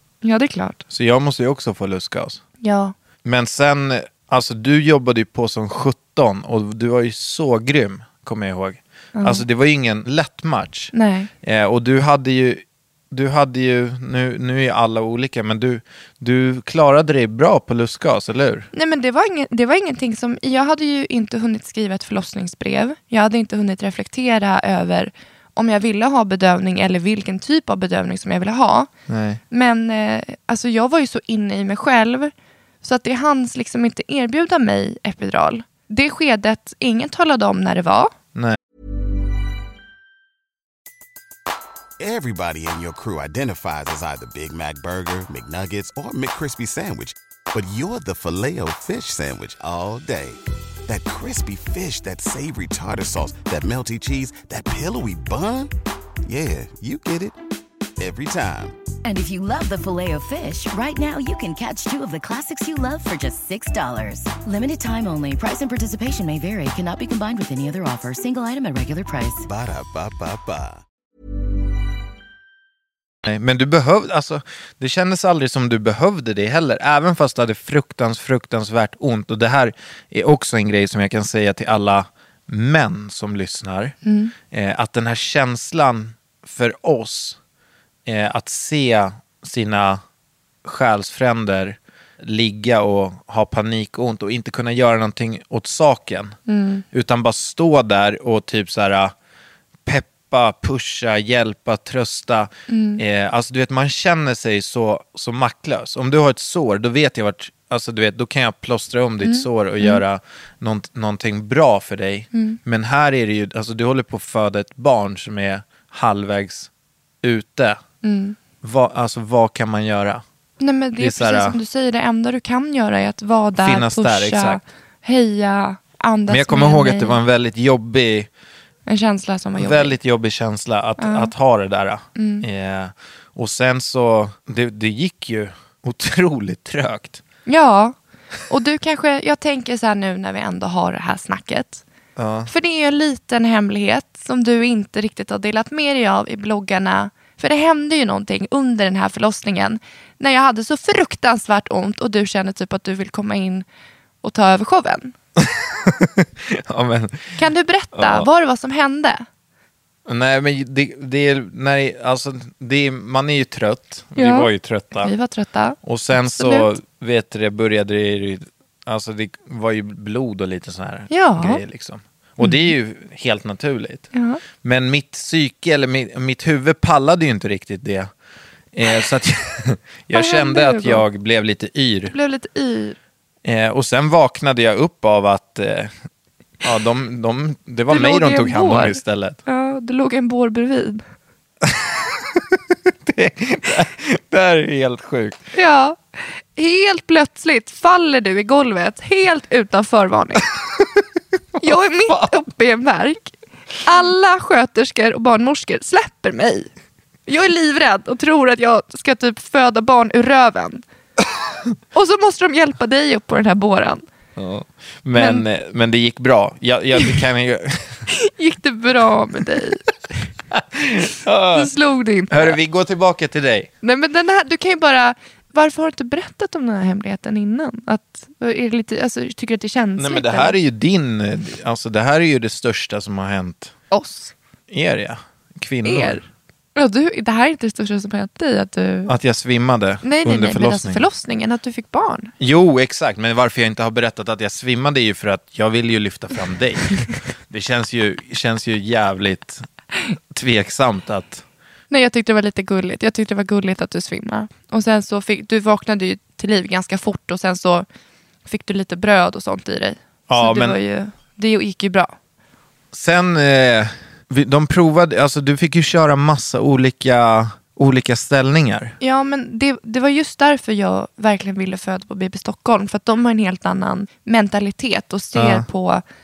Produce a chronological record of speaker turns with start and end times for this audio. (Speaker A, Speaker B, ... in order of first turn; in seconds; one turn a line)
Speaker A: 0.2-0.8
Speaker B: 0.9-2.4
Speaker A: 2.6-2.9
Speaker B: 3.2-10.9
Speaker A: 9.2-9.4
Speaker A: 10.9-11.3
Speaker B: 11.4-18.7
Speaker A: 18.7-28.9
Speaker B: 29.1-29.4
Speaker A: 29.5-32.3
Speaker A: 32.8-38.1
Speaker C: 42.0-55.7
Speaker C: 56.2-57.4
Speaker C: 58.0-58.8
Speaker D: 59.0-69.5
Speaker C: 69.4-70.8
Speaker B: 73.2-84.0
Speaker A: 84.0-84.3
Speaker B: 84.5-87.4
Speaker B: 88.1-90.0
Speaker B: 90.6-96.4
Speaker A: 96.5-96.8
Speaker B: 96.9-99.1
Speaker B: 99.9-116.7
Speaker A: 102.7-103.0
Speaker A: 109.2-110.0
Speaker A: 112.3-112.6
Speaker B: 117.2-117.8
Speaker A: 118.0-118.4
Speaker B: 118.6-120.2
Speaker A: 120.6-127.2
Speaker B: 121.0-121.6
Speaker B: 123.6-124.6
Speaker B: 126.3-128.3
Speaker A: 128.9-130.0
Speaker B: 129.6-137.2
Speaker A: 131.0-131.3
Speaker A: 132.2-132.4
Speaker A: 137.5-137.9
Speaker A: 138.5-141.8
Speaker B: 142.2-142.5
Speaker A: 142.5-153.7
Speaker A: 154.2-155.2
Speaker B: 155.4-157.4
Speaker A: 157.4-159.2
Speaker B: 158.0-158.3
Speaker B: 160.1-165.1
Speaker A: 164.2-166.7
Speaker B: 165.8-174.1
Speaker A: 171.1-171.6
Speaker A: 172.4-172.7
Speaker A: 174.1-174.4
Speaker B: 174.6-178.1
Speaker B: 178.7-182.2
Speaker A: 180.1-181.1
Speaker A: 182.1-183.0
Speaker B: 183.4-185.9
Speaker B: 186.6-189.4
Speaker A: 187.9-191.0
Speaker B: 191.6-195.4
Speaker A: 195.5-200.5
Speaker B: 201.6-202.3
Speaker A: 201.6-206.7
Speaker A: 207.3-210.8
Speaker A: 211.9-214.0
Speaker B: 214.4-218.1
Speaker A: 215.2-215.5
Speaker A: 217.0-217.2
Speaker A: 218.1-219.9
Speaker B: 220.5-221.7
Speaker A: 221.5-222.6
Speaker B: 222.3-223.7
Speaker A: 223.8-230.6
Speaker B: 230.0-233.8
Speaker A: 233.9-234.3
Speaker B: 234.7-236.2
Speaker A: 235.8-236.2
Speaker A: 236.8-239.1
Speaker B: 239.1-241.1
Speaker A: 240.0-242.3
Speaker B: 242.4-247.0
Speaker B: 247.5-249.7
Speaker B: 250.3-251.4
Speaker A: 251.9-257.9
Speaker A: 258.5-262.1
Speaker B: 260.3-260.8
Speaker B: 262.9-269.0
Speaker A: 269.0-276.0
Speaker B: 275.4-275.7